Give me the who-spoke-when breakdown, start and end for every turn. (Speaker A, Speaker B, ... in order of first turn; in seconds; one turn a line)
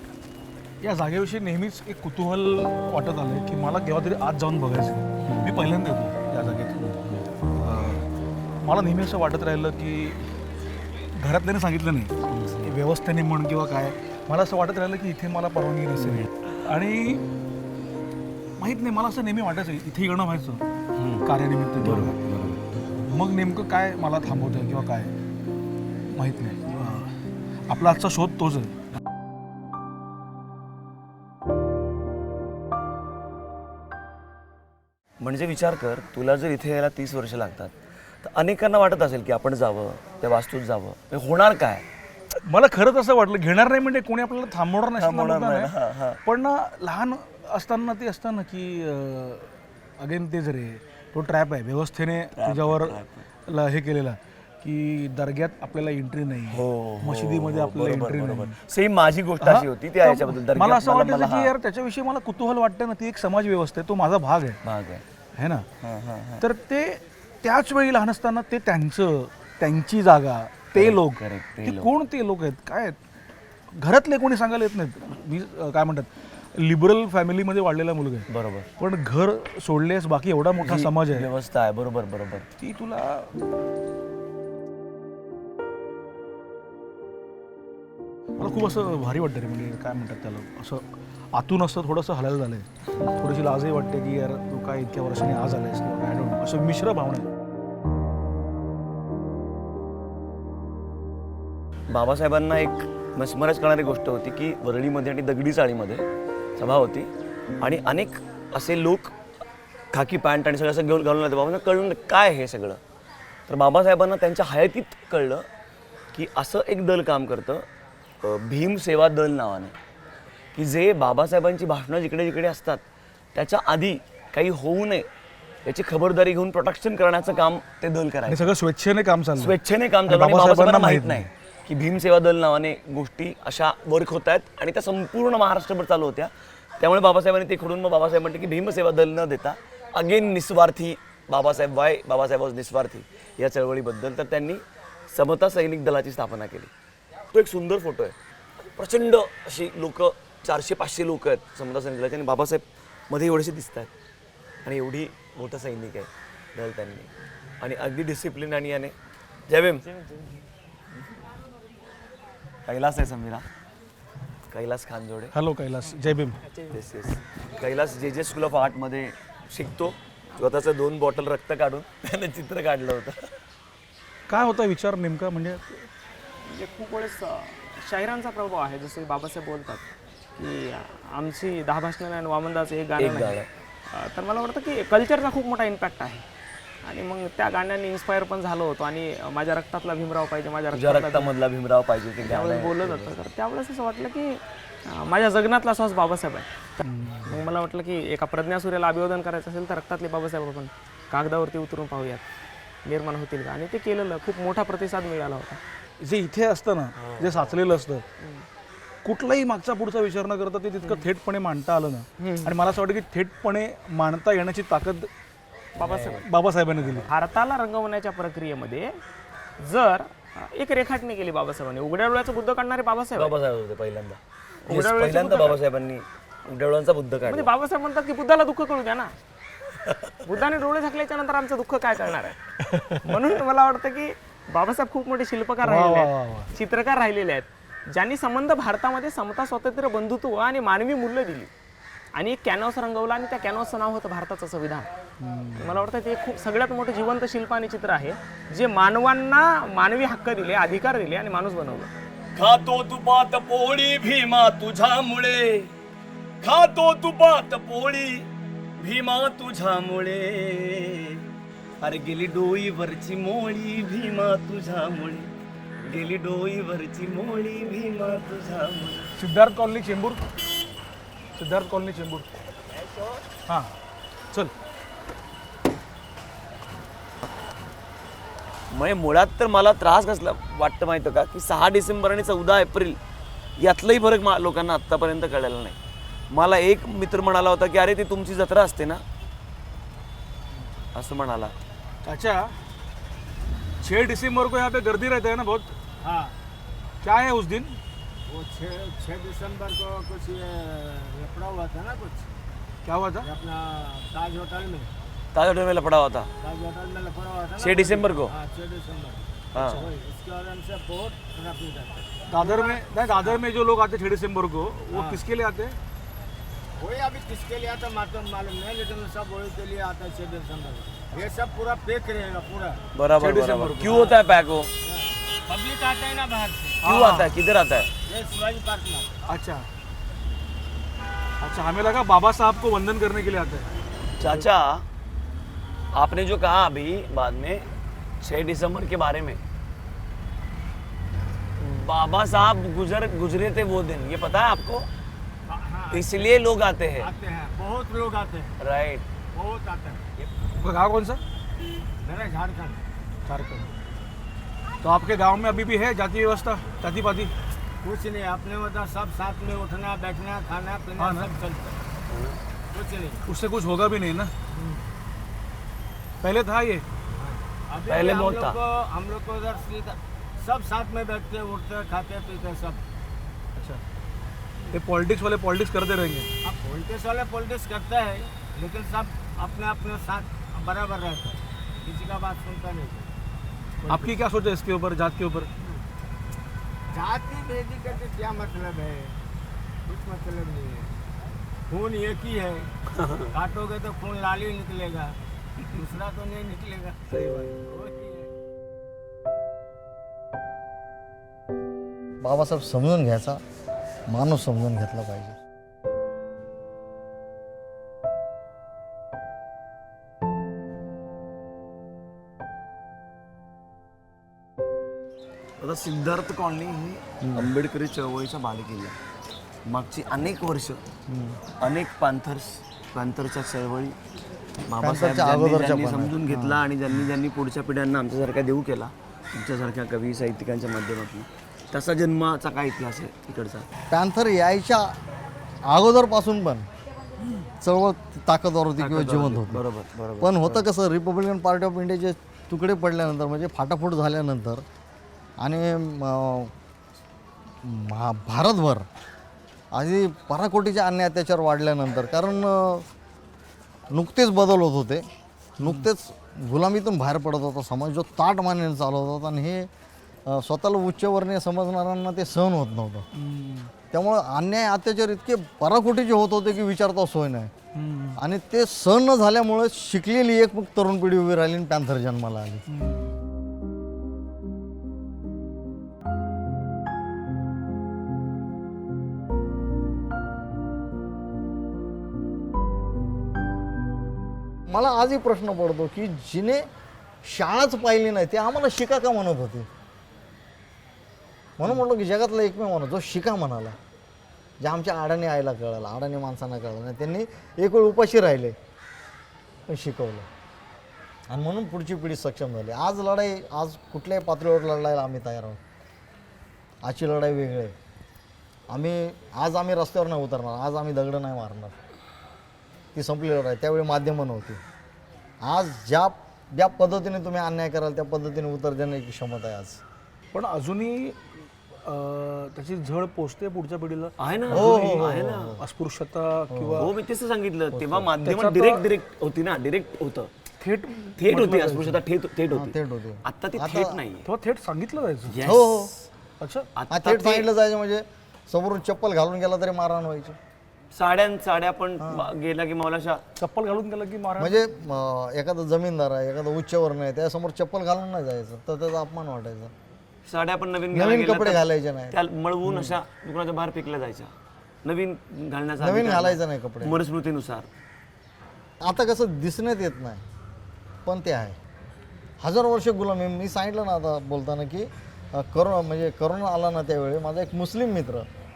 Speaker A: 0.8-8.1
Speaker A: 8.6-10.2
Speaker A: 11.2-17.2
Speaker B: 12.3-12.7
Speaker A: 18.6-20.6
Speaker B: 21.0-21.3
Speaker A: 21.2-22.2
Speaker B: 21.8-22.8
Speaker A: 22.9-25.1
Speaker A: 26.1-27.1
Speaker A: 27.7-28.8
Speaker B: 35.2-41.8
Speaker A: 42.4-45.7
Speaker B: 45.0-46.2
Speaker A: 46.2-58.6
Speaker B: 52.4-53.2
Speaker B: 56.5-61.5
Speaker A: 59.4-64.6
Speaker B: 64.6-65.0
Speaker A: 65.3-65.7
Speaker B: 65.8-66.4
Speaker A: 66.4-73.0
Speaker B: 70.7-71.9
Speaker A: 73.7-78.2
Speaker B: 78.3-78.7
Speaker A: 78.8-81.3
Speaker B: 80.6-82.5
Speaker A: 82.6-83.3
Speaker A: 88.4-97.3
Speaker B: 101.9-106.0
Speaker B: 106.6-109.1
Speaker B: 109.9-112.8
Speaker B: 113.5-115.4
Speaker B: 116.1-117.6
Speaker B: 118.2-119.7
Speaker B: 120.5-122.8
Speaker B: 123.3-125.1
Speaker B: 125.7-128.5
Speaker A: 128.3-129.5
Speaker B: 129.3-146.7
Speaker A: 130.1-131.3
Speaker B: 147.3-153.9
Speaker B: 154.6-157.1
Speaker B: 157.6-158.9
Speaker B: 159.5-159.8
Speaker C: 159.8-160.4
Speaker B: 162.7-163.4
Speaker B: 164.5-165.3
Speaker A: 165.3-166.4
Speaker C: 166.5-166.8
Speaker B: 166.7-173.3
Speaker A: 174.3-175.9
Speaker C: 176.5-186.2
Speaker B: 183.0-183.5
Speaker C: 186.8-191.3
Speaker B: 190.7-193.2
Speaker C: 192.2-196.5
Speaker A: 196.8-197.4
Speaker C: 197.2-202.2
Speaker C: 202.8-205.6
Speaker A: 206.0-208.0
Speaker B: 206.9-207.6
Speaker C: 208.2-208.4
Speaker A: 209.0-215.1
Speaker C: 212.2-212.5
Speaker C: 215.8-216.2
Speaker B: 215.8-216.2
Speaker A: 216.2-217.1
Speaker B: 216.8-217.1
Speaker C: 217.1-218.9
Speaker C: 219.6-223.3
Speaker B: 223.1-227.5
Speaker C: 224.6-225.6
Speaker C: 227.3-229.1
Speaker B: 229.8-230.1
Speaker C: 230.2-232.4
Speaker A: 232.7-233.0
Speaker C: 233.0-241.5
Speaker A: 235.6-236.5
Speaker C: 242.2-244.9
Speaker A: 245.2-245.9
Speaker C: 245.6-251.9
Speaker B: 252.4-255.7
Speaker B: 256.4-258.3
Speaker B: 258.8-261.2
Speaker B: 261.8-265.3
Speaker B: 265.8-269.1
Speaker A: 269.1-270.2
Speaker A: 271.4-272.3
Speaker A: 273.5-273.7
Speaker B: 278.7-283.0
Speaker B: 283.6-285.8
Speaker B: 286.3-289.0
Speaker B: 290.9-291.5
Speaker A: 292.0-292.6
Speaker A: 293.8-295.8
Speaker D: 296.0-296.3
Speaker A: 297.0-297.8
Speaker D: 298.3-302.3
Speaker A: 302.8-303.3
Speaker D: 303.2-304.9
Speaker B: 305.3-306.3
Speaker D: 306.4-313.4
Speaker B: 307.6-308.3
Speaker B: 309.5-309.9
Speaker A: 312.3-315.8
Speaker D: 314.9-315.2
Speaker D: 316.8-322.8
Speaker B: 322.9-324.7
Speaker A: 323.2-324.1
Speaker D: 324.9-326.8
Speaker A: 326.8-327.3
Speaker B: 326.8-327.9
Speaker D: 328.1-329.2
Speaker A: 329.3-329.7
Speaker A: 331.4-333.7
Speaker B: 334.2-334.8
Speaker B: 335.9-337.6
Speaker B: 338.2-339.4
Speaker B: 341.6-344.9
Speaker D: 345.5-346.3
Speaker B: 345.9-347.1
Speaker D: 347.0-348.5
Speaker B: 348.6-349.1
Speaker D: 349.3-350.0
Speaker A: 350.6-351.2
Speaker D: 352.0-352.8
Speaker A: 353.2-353.7
Speaker A: 354.8-357.3
Speaker D: 357.8-361.8
Speaker A: 361.0-361.3
Speaker B: 362.1-362.4
Speaker D: 362.7-363.2
Speaker A: 363.2-364.3
Speaker A: 366.2-366.8
Speaker D: 367.2-372.8
Speaker B: 367.9-368.6
Speaker A: 373.6-373.8
Speaker A: 374.7-376.3
Speaker D: 376.4-383.1
Speaker A: 383.9-385.5
Speaker D: 386.9-389.2
Speaker D: 389.9-390.9
Speaker D: 391.7-392.7
Speaker B: 392.9-393.3
Speaker D: 393.3-395.1
Speaker D: 395.7-398.3
Speaker A: 397.1-397.6
Speaker E: 402.2-403.4
Speaker E: 404.1-405.4
Speaker B: 415.6-418.9
Speaker E: 417.2-417.5
Speaker B: 419.6-420.8
Speaker E: 421.1-421.4
Speaker B: 421.6-423.9
Speaker B: 424.7-433.7
Speaker E: 424.8-426.6
Speaker E: 433.9-434.9
Speaker E: 435.7-436.7
Speaker E: 437.6-439.6
Speaker B: 438.8-440.6
Speaker E: 440.2-444.6
Speaker E: 445.4-446.5
Speaker E: 447.6-448.9
Speaker E: 449.7-452.9
Speaker E: 453.9-455.0
Speaker E: 455.6-459.7
Speaker A: 455.6-455.9
Speaker E: 460.2-463.1
Speaker A: 463.1-463.7
Speaker E: 463.9-467.5
Speaker A: 467.8-468.2
Speaker E: 468.2-472.6
Speaker A: 472.7-473.1
Speaker E: 484.7-486.6
Speaker E: 487.3-489.7
Speaker E: 491.6-493.8
Speaker E: 494.6-498.6
Speaker E: 499.7-500.3
Speaker E: 501.3-505.6
Speaker E: 506.8-507.8
Speaker E: 508.7-511.8
Speaker E: 513.0-514.6
Speaker E: 515.4-519.8
Speaker A: 520.3-526.9
Speaker B: 524.2-525.6
Speaker E: 524.5-525.6
Speaker E: 526.5-526.9
Speaker B: 526.8-530.3
Speaker E: 527.7-528.1
Speaker A: 528.2-528.8
Speaker A: 530.6-532.0
Speaker B: 531.2-534.3
Speaker E: 532.5-534.0
Speaker A: 534.2-535.4
Speaker B: 535.3-536.1
Speaker E: 535.4-535.9
Speaker A: 536.4-536.7
Speaker B: 536.8-537.5
Speaker E: 536.9-540.4
Speaker B: 540.9-543.2
Speaker E: 542.0-542.3
Speaker A: 543.4-544.6
Speaker E: 544.4-549.7
Speaker B: 550.2-554.3
Speaker E: 550.9-552.9
Speaker B: 554.9-557.7
Speaker E: 555.8-557.0
Speaker E: 558.8-560.2
Speaker E: 561.0-561.6
Speaker E: 562.4-568.2